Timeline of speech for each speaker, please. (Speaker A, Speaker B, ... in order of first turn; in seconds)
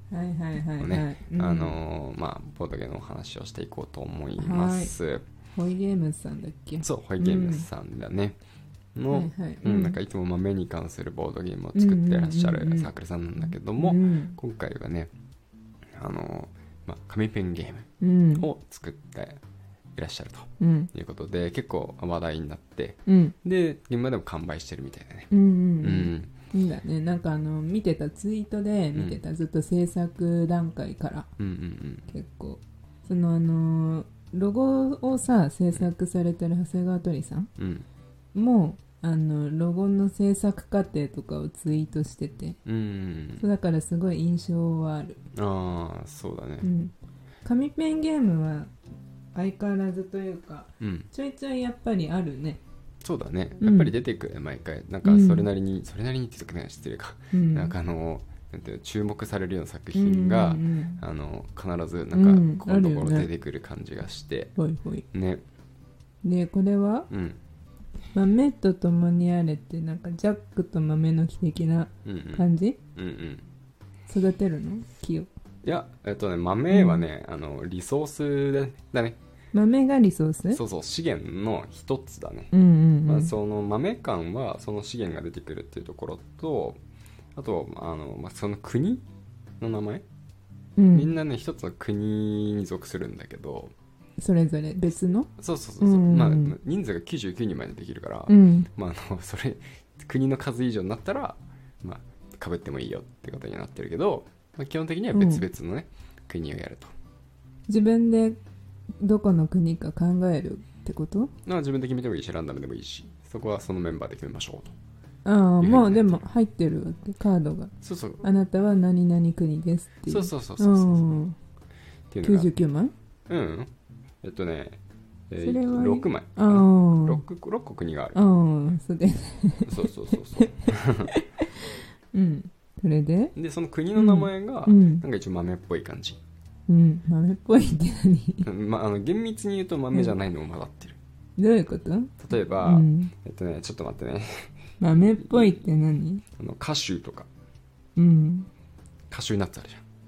Speaker A: 0.1-1.8, 4.4-4.9, 5.5-7.7, 9.1-10.0, 11.7-14.4, 18.0-18.5, 20.6-20.9, 23.1-23.4, 25.3-31.3, 32.1-37.5, 38.3-42.6, 43.4-45.2, 46.6-48.7, 49.3-52.6, 53.6-53.9, 55.0-55.5, 57.3-57.8, 59.9-61.0, 62.1-63.3, 64.5-65.1, 66.2-67.1, 68.1-72.8, 74.1-75.3, 76.7-77.1, 79.5-80.6, 82.5-83.3, 90.8-91.1, 94.2-95.3, 95.8-96.6, 98.3-98.7, 105.1-105.5, 107.7-108.4, 109.0-111.3, 115.2-121.4, 122.2-122.9, 125.4-127.2, 128.1-133.3, 133.9-135.1, 136.7-138.5, 141.4-143.1, 144.8-146.2, 148.0-148.5
Speaker B: 0.8-5.2, 6.8-8.4, 8.9-15.1, 16.0-19.4, 19.9-25.3, 25.8-26.3, 28.9-29.2, 31.4-32.1, 37.6-37.9, 42.7-43.5, 45.3-46.7, 50.8-51.1, 53.0-64.5, 65.1-65.4, 67.1-67.4, 72.0-73.4, 75.6-79.2, 80.5-82.5, 83.1-86.8, 87.3-89.0, 89.6-90.0, 90.9-93.7, 95.4-106.9, 111.5-114.7, 115.6-116.3, 117.8-118.2, 120.1-121.2, 122.1-122.5, 123.3-123.7, 124.2-124.8, 125.3-128.3, 129.7-131.1, 133.4-136.2, 138.4-141.0, 142.2-145.7, 146.4-147.3, 149.1-149.8